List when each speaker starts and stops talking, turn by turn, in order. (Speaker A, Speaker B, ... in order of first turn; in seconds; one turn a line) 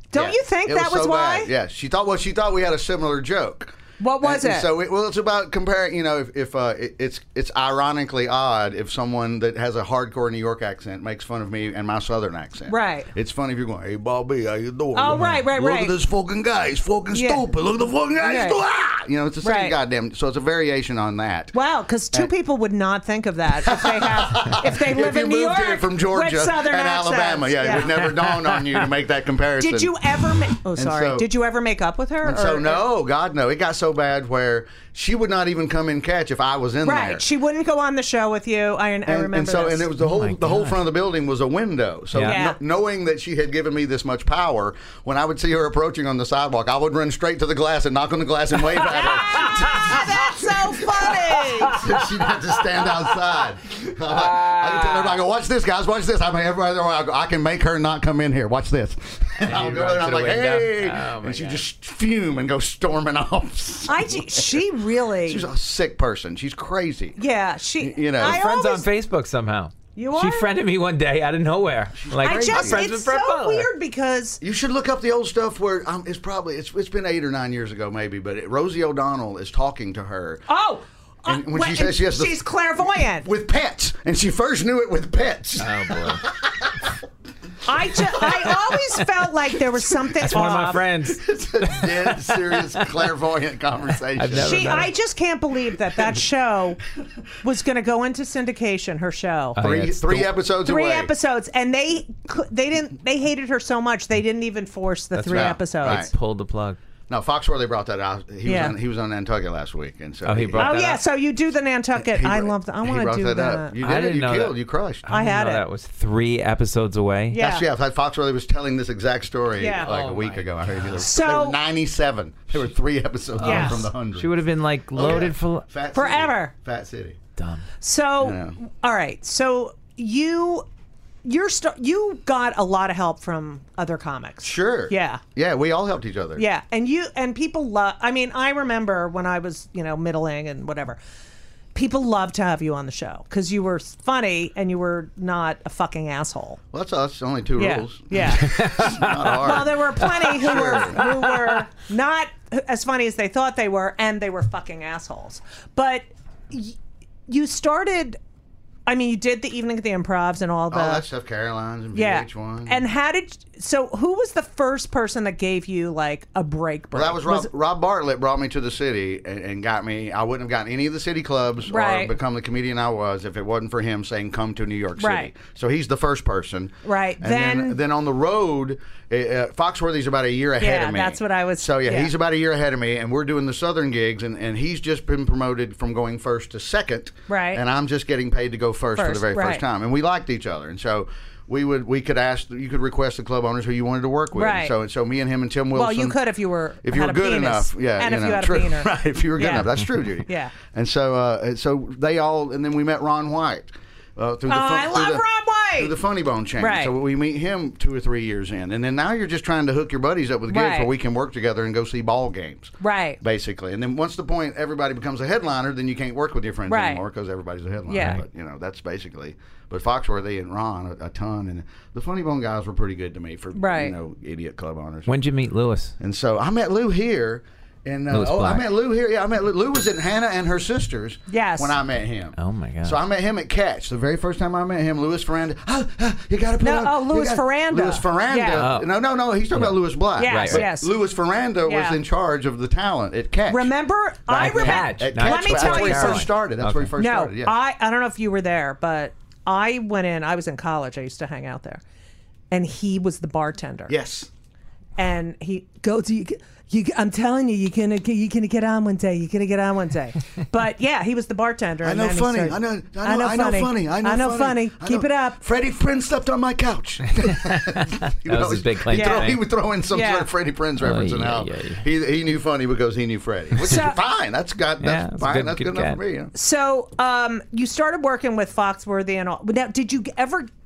Speaker A: 0.1-1.5
Speaker B: 0.1-21.5
Speaker A: 4.0-4.7
Speaker A: 12.7-13.1
Speaker A: 14.9-15.9
Speaker A: 17.1-17.4
Speaker A: 18.2-18.6
Speaker A: 19.4-19.8
Speaker A: 21.5-28.0
Speaker B: 23.6-29.9
Speaker C: 28.0-28.6
Speaker A: 29.6-32.8
Speaker B: 30.7-31.3
Speaker B: 32.2-37.2
Speaker A: 36.8-39.9
Speaker B: 39.0-64.7
Speaker C: 40.0-40.8
Speaker C: 42.1-42.4
Speaker A: 42.2-42.6
Speaker A: 48.9-51.8
Speaker C: 54.1-55.1
Speaker C: 59.4-61.6
Speaker A: 63.9-65.5
Speaker B: 65.2-67.2
Speaker A: 67.2-68.9
Speaker B: 67.8-68.4
Speaker C: 68.2-73.7
Speaker A: 69.9-70.5
Speaker B: 71.9-72.8
Speaker A: 72.2-74.4
Speaker B: 74.4-80.4
Speaker A: 80.5-83.3
Speaker B: 81.2-86.9
Speaker C: 85.6-86.2
Speaker A: 87.7-90.8
Speaker B: 88.1-88.6
Speaker C: 90.2-93.1
Speaker B: 90.8-94.9
Speaker C: 94.1-94.9
Speaker A: 94.3-96.8
Speaker A: 97.4-99.7
Speaker C: 99.5-100.3
Speaker B: 99.6-101.1
Speaker A: 100.6-106.1
Speaker B: 105.1-106.1
Speaker C: 105.3-106.8
Speaker B: 107.1-110.7
Speaker A: 108.4-108.8
Speaker C: 110.2-111.0
Speaker A: 110.6-113.7
Speaker B: 112.0-115.0
Speaker C: 113.8-117.4
Speaker A: 115.1-115.7
Speaker A: 117.3-117.7
Speaker B: 117.4-124.3
Speaker A: 119.6-119.9
Speaker C: 119.8-120.9
Speaker A: 121.0-121.6
Speaker A: 123.4-123.9
Speaker C: 123.4-125.7
Speaker B: 124.9-127.2
Speaker A: 125.9-126.5
Speaker C: 127.4-127.7
Speaker A: 127.8-130.7
Speaker B: 128.2-128.6
Speaker A: 131.2-135.2
Speaker B: 134.4-136.4
Speaker A: 136.3-141.0
Speaker A: 141.7-146.6
Speaker B: 146.7-151.0
Speaker A: 147.6-156.8
Speaker C: 148.4-149.1
Speaker A: 157.3-158.2
Speaker A: 158.8-161.0
Speaker B: 160.7-162.9
Speaker A: 161.9-167.5
Speaker B: 166.9-196.2
Speaker A: 171.6-172.1
Speaker A: 175.0-175.3
Speaker A: 176.8-177.8
Speaker A: 180.6-182.1
Speaker A: 187.3-187.6
Speaker A: 188.9-189.6
Speaker A: 194.3-194.7
Speaker A: 195.7-199.7
Speaker B: 196.8-205.2
Speaker A: 200.2-200.5
Speaker A: 204.5-205.9
Speaker B: 205.8-225.1
Speaker A: 206.6-206.9
Speaker A: 210.5-210.9
Speaker A: 212.8-213.2
Speaker A: 216.7-217.0
Speaker A: 217.9-218.2
Speaker A: 223.5-223.9
Speaker C: 225.1-225.9
Speaker B: 226.0-243.7
Speaker C: 228.1-228.7
Speaker A: 231.3-231.8
Speaker C: 232.4-233.0
Speaker A: 236.6-238.7
Speaker C: 238.5-238.9
Speaker C: 239.5-240.7
Speaker A: 240.2-240.9
Speaker A: 241.6-242.0
Speaker A: 243.5-246.3
Speaker B: 244.3-247.5
Speaker C: 244.3-246.9
Speaker A: 247.0-251.8
Speaker A: 252.5-253.9
Speaker B: 253.9-254.3
Speaker A: 255.0-265.4
Speaker B: 261.8-276.3
Speaker C: 267.5-269.4
Speaker A: 268.9-269.4
Speaker A: 269.9-270.3
Speaker C: 270.8-271.9
Speaker A: 273.6-274.0
Speaker C: 274.8-276.0
Speaker A: 276.3-280.5